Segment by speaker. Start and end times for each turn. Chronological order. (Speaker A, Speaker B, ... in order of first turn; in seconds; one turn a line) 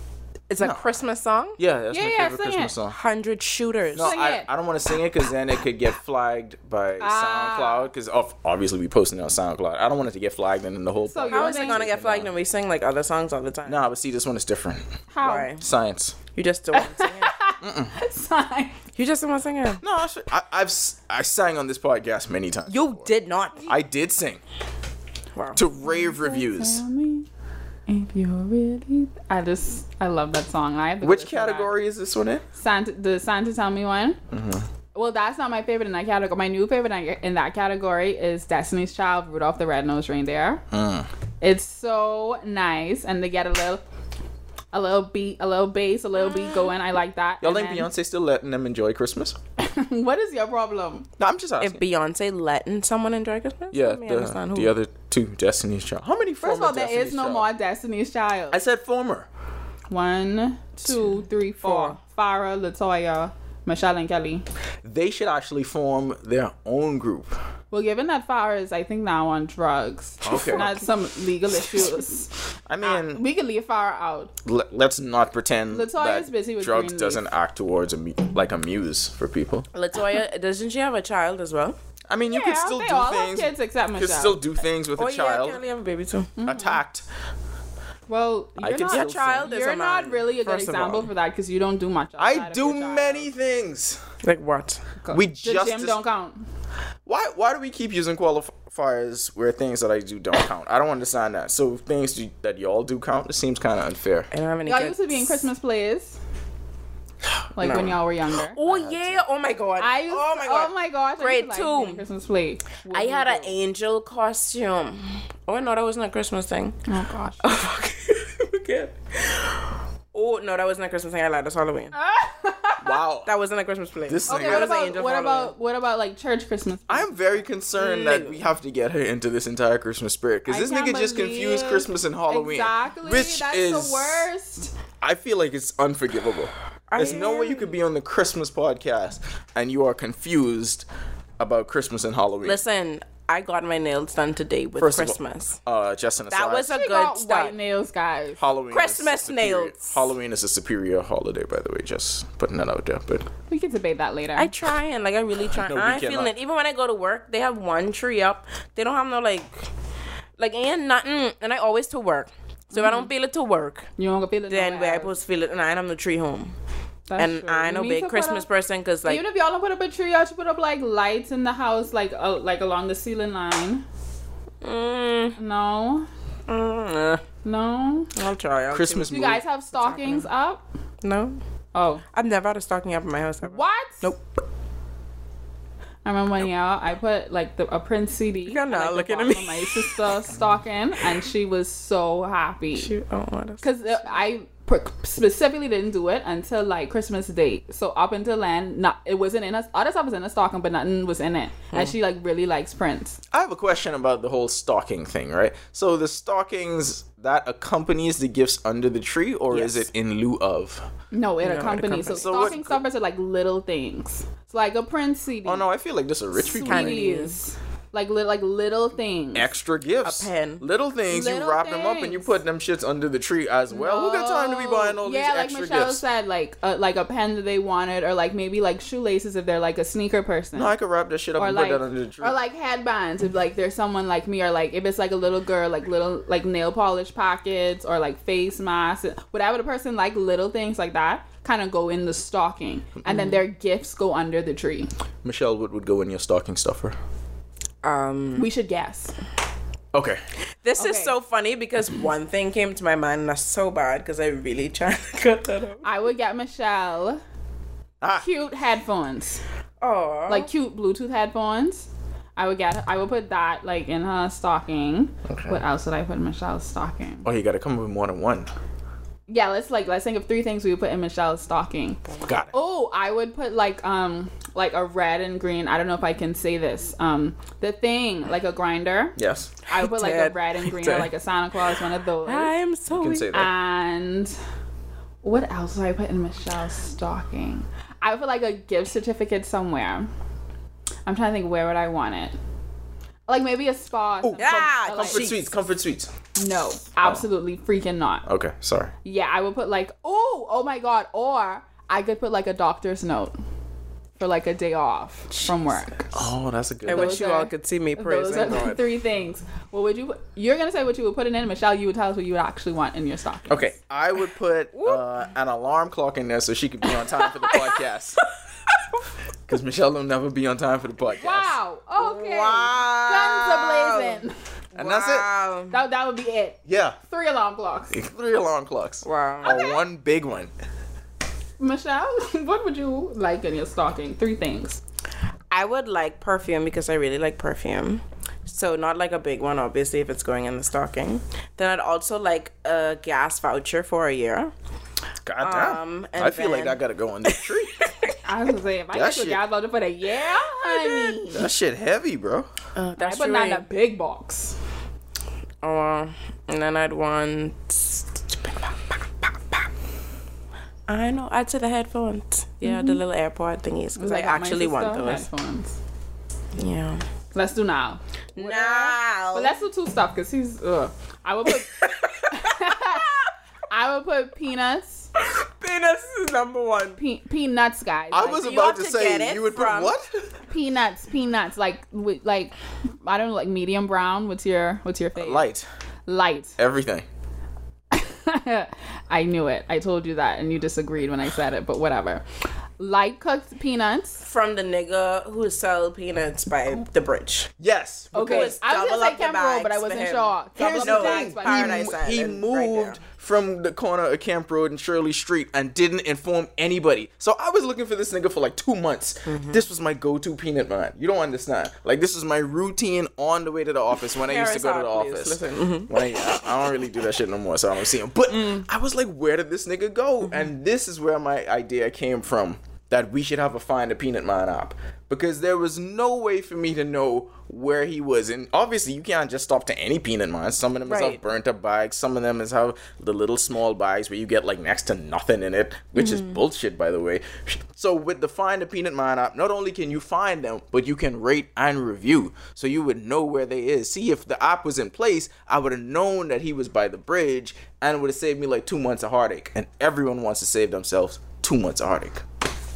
Speaker A: 0.5-1.6
Speaker B: 0.6-1.0
Speaker B: 1.6-3.0
Speaker C: 1.9-2.7
Speaker A: 2.9-4.2
Speaker B: 3.9-12.3
Speaker C: 4.0-4.5
Speaker C: 7.0-7.9
Speaker C: 11.1-11.8
Speaker A: 11.3-13.8
Speaker B: 13.7-14.8
Speaker C: 15.1-15.5
Speaker A: 15.2-15.6
Speaker B: 15.5-16.2
Speaker A: 16.4-17.4
Speaker C: 16.7-18.8
Speaker B: 17.6-17.9
Speaker A: 18.9-19.8
Speaker B: 19.8-23.1
Speaker A: 22.7-23.7
Speaker B: 23.7-24.4
Speaker A: 25.4-25.6
Speaker B: 25.6-26.8
Speaker C: 25.8-27.3
Speaker C: 27.9-31.8
Speaker B: 31.0-32.4
Speaker C: 32.5-34.2
Speaker B: 34.3-34.7
Speaker C: 34.9-40.6
Speaker B: 40.7-41.1
Speaker C: 41.4-43.8
Speaker C: 44.7-47.9
Speaker A: 46.2-46.7
Speaker B: 47.4-49.4
Speaker C: 49.6-51.1
Speaker B: 51.2-51.8
Speaker A: 51.6-54.7
Speaker B: 53.7-57.5
Speaker C: 56.4-58.6
Speaker B: 58.5-59.3
Speaker C: 59.9-64.5
Speaker A: 61.6-62.0
Speaker B: 64.8-67.4
Speaker C: 67.7-74.3
Speaker B: 70.2-70.8
Speaker B: 72.7-73.2
Speaker B: 74.4-79.7
Speaker C: 75.7-77.2
Speaker A: 79.7-81.8
Speaker B: 82.1-85.6
Speaker C: 82.3-84.4
Speaker A: 85.0-86.3
Speaker C: 86.4-86.8
Speaker B: 86.4-87.0
Speaker C: 88.1-93.3
Speaker B: 88.6-89.5
Speaker A: 88.8-91.1
Speaker B: 92.2-94.0
Speaker A: 94.2-94.8
Speaker C: 95.0-96.4
Speaker B: 95.1-96.0
Speaker B: 97.1-104.3
Speaker A: 104.3-105.4
Speaker C: 104.7-106.2
Speaker C: 107.6-108.6
Speaker A: 107.6-108.0
Speaker B: 107.6-107.9
Speaker A: 108.5-112.0
Speaker B: 108.7-109.2
Speaker C: 109.8-113.5
Speaker A: 112.9-116.8
Speaker C: 116.9-117.5
Speaker A: 117.4-122.0
Speaker C: 121.9-123.0
Speaker B: 122.8-123.3
Speaker A: 123.2-125.5
Speaker B: 124.1-124.8
Speaker C: 124.3-127.4
Speaker B: 126.9-134.3
Speaker A: 127.8-128.4
Speaker C: 130.5-134.7
Speaker B: 135.0-140.8
Speaker A: 136.9-137.7
Speaker B: 141.4-142.6
Speaker A: 142.4-145.6
Speaker B: 144.8-146.8
Speaker A: 146.3-147.6
Speaker C: 146.7-148.4
Speaker B: 148.4-153.3
Speaker A: 148.7-150.0
Speaker C: 153.5-154.5
Speaker A: 154.4-159.7
Speaker B: 155.6-156.3
Speaker A: 160.4-163.9
Speaker C: 162.7-163.1
Speaker C: 164.0-165.1
Speaker A: 164.5-166.5
Speaker C: 167.1-168.5
Speaker A: 167.2-169.2
Speaker C: 169.1-173.8
Speaker A: 174.6-175.4
Speaker C: 175.4-176.1
Speaker A: 176.5-177.2
Speaker C: 177.4-178.1
Speaker A: 178.2-179.2
Speaker B: 178.7-179.4
Speaker C: 179.1-180.6
Speaker A: 179.8-180.3
Speaker A: 181.0-181.4
Speaker C: 181.7-182.0
Speaker A: 182.1-184.4
Speaker C: 183.4-184.1
Speaker C: 186.1-192.9
Speaker A: 188.5-190.1
Speaker A: 192.8-194.2
Speaker C: 193.6-203.2
Speaker B: 203.3-210.8
Speaker A: 209.5-209.8
Speaker C: 211.1-215.7
Speaker A: 211.4-212.3
Speaker B: 212.1-212.8
Speaker B: 215.4-217.1
Speaker C: 216.4-219.5
Speaker A: 216.5-217.4
Speaker B: 219.3-226.0
Speaker A: 220.0-220.7
Speaker C: 221.1-222.3
Speaker C: 223.7-230.7
Speaker B: 230.6-232.4
Speaker C: 231.4-244.9
Speaker A: 243.1-243.4
Speaker B: 245.2-247.0
Speaker A: 247.8-248.5
Speaker C: 248.4-249.1
Speaker B: 249.9-250.2
Speaker A: 250.6-255.9
Speaker C: 250.8-251.2
Speaker C: 255.8-257.2
Speaker B: 258.0-258.3
Speaker C: 258.2-259.4
Speaker A: 259.8-260.5
Speaker C: 260.3-267.3
Speaker B: 265.3-265.6
Speaker B: 267.2-268.5
Speaker C: 269.3-282.5
Speaker B: 272.2-272.5
Speaker B: 279.2-279.5
Speaker A: 279.7-281.1
Speaker A: 282.2-283.3
Speaker B: 282.9-283.5
Speaker C: 283.3-284.4
Speaker C: 285.2-290.1
Speaker C: 291.1-292.4
Speaker C: 293.3-295.3
Speaker B: 294.2-296.1
Speaker A: 294.4-295.5
Speaker C: 296.4-298.3
Speaker B: 298.3-298.9
Speaker C: 299.0-303.3
Speaker C: 304.2-306.3
Speaker B: 306.1-307.2
Speaker A: 306.9-308.8
Speaker C: 306.9-313.7
Speaker B: 313.5-318.2
Speaker B: 319.5-321.6
Speaker C: 321.1-324.3
Speaker A: 322.0-324.2
Speaker B: 324.8-325.3
Speaker A: 324.8-325.8
Speaker C: 325.7-328.0
Speaker B: 326.7-327.0
Speaker B: 327.9-330.5
Speaker A: 329.0-329.6
Speaker C: 329.4-329.8
Speaker C: 331.6-334.8
Speaker A: 335.5-344.5
Speaker B: 345.2-347.9
Speaker A: 345.4-348.1
Speaker C: 348.2-351.4
Speaker B: 348.9-349.4
Speaker A: 350.8-351.2
Speaker B: 351.2-352.5
Speaker A: 352.8-353.6
Speaker C: 353.0-354.6
Speaker A: 355.6-359.7
Speaker A: 360.9-365.3
Speaker C: 362.6-363.0
Speaker C: 364.0-365.8
Speaker A: 366.6-367.0
Speaker C: 367.3-373.1
Speaker A: 368.4-369.6
Speaker A: 371.5-372.4
Speaker C: 373.7-375.1
Speaker A: 375.2-377.0
Speaker C: 377.0-378.5
Speaker B: 378.1-380.1
Speaker A: 378.4-380.0
Speaker C: 380.5-385.5
Speaker B: 385.2-385.7
Speaker C: 386.1-386.6
Speaker B: 386.6-387.1
Speaker C: 387.9-392.2
Speaker C: 392.8-394.2
Speaker A: 394.2-397.5
Speaker B: 397.6-398.6
Speaker C: 398.1-401.9
Speaker A: 398.1-403.0
Speaker B: 400.6-452.2
Speaker A: 409.3-409.6
Speaker A: 414.1-416.3
Speaker A: 418.3-418.6
Speaker A: 430.9-431.2
Speaker A: 436.0-436.4